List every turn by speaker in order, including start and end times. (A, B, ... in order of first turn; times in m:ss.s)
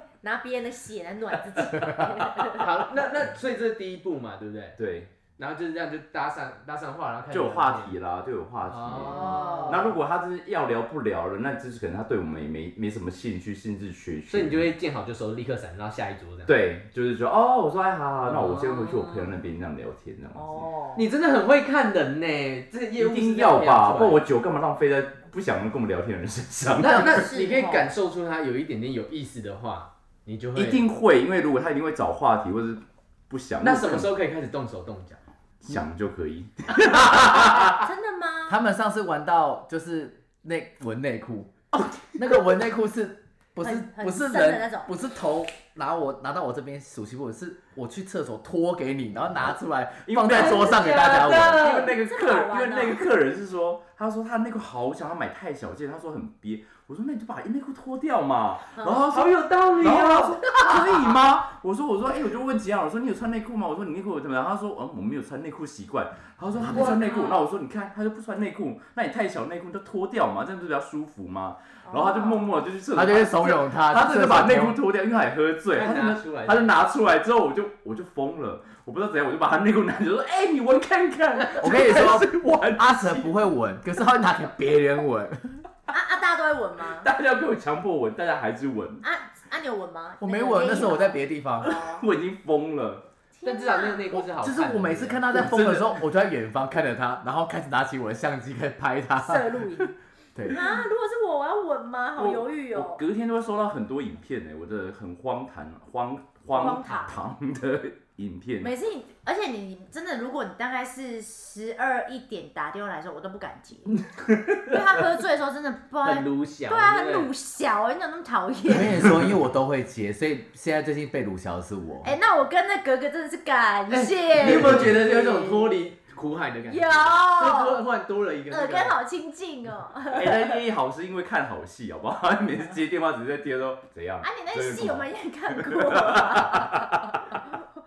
0:00.2-0:02.7 A
0:02.6-0:04.8 B
0:04.8-0:05.1 C
0:05.4-0:08.0 B
0:07.3-0:14.7 C
0:08.7-0:09.9 B
0:09.1-0:09.9 A
0:14.3-0:16.6 B
0:16.5-0:20.7 C
0:18.3-0:19.3 B
0:20.4-0:21.1 A
0:21.0-0:24.2 B
0:23.0-0:27.3 C
0:26.8-0:30.8 B
0:26.8-0:27.9 A
0:30.6-0:34.1 C
0:33.6-0:35.2 B
0:35.6-0:37.8 C
0:37.6-0:38.6 A
0:38.5-0:41.6 D
0:42.2-0:51.7 D
0:43.6-0:44.9 A
0:50.1-1:23.3 C
0:50.3-0:52.0 B
0:51.6-0:53.0 A
0:58.7-0:59.0 A
0:59.0-1:01.2 B
1:06.7-1:07.0 B
1:06.7-1:07.5 A
1:11.8-1:12.5 A
1:12.9-1:14.8 D
1:15.8-1:16.7 B
1:21.4-1:21.7 B
1:21.6-1:25.6 D
1:25.9-1:27.1 A
1:27.0-1:29.0 C
1:29.0-1:32.0 A
1:30.2-1:31.7 D
1:31.6-1:33.0 C
1:33.4-1:34.2 A
1:33.4-1:35.3 B
1:34.2-1:40.6 D
1:35.3-1:36.0 C
1:39.2-1:39.9 A
1:40.5-1:43.0 A
1:42.2-1:48.7 C
1:46.5-1:47.2 A
1:48.6-1:54.0 A
1:54.0-1:54.6 C
1:54.7-1:59.1 A
1:56.0-1:57.3 B
1:58.7-2:02.1 D
2:02.0-2:05.8 A
2:03.9-2:09.0 B
2:06.7-2:07.8 A
2:08.5-2:10.6 A
2:10.1-2:16.9 C
2:14.2-2:17.6 A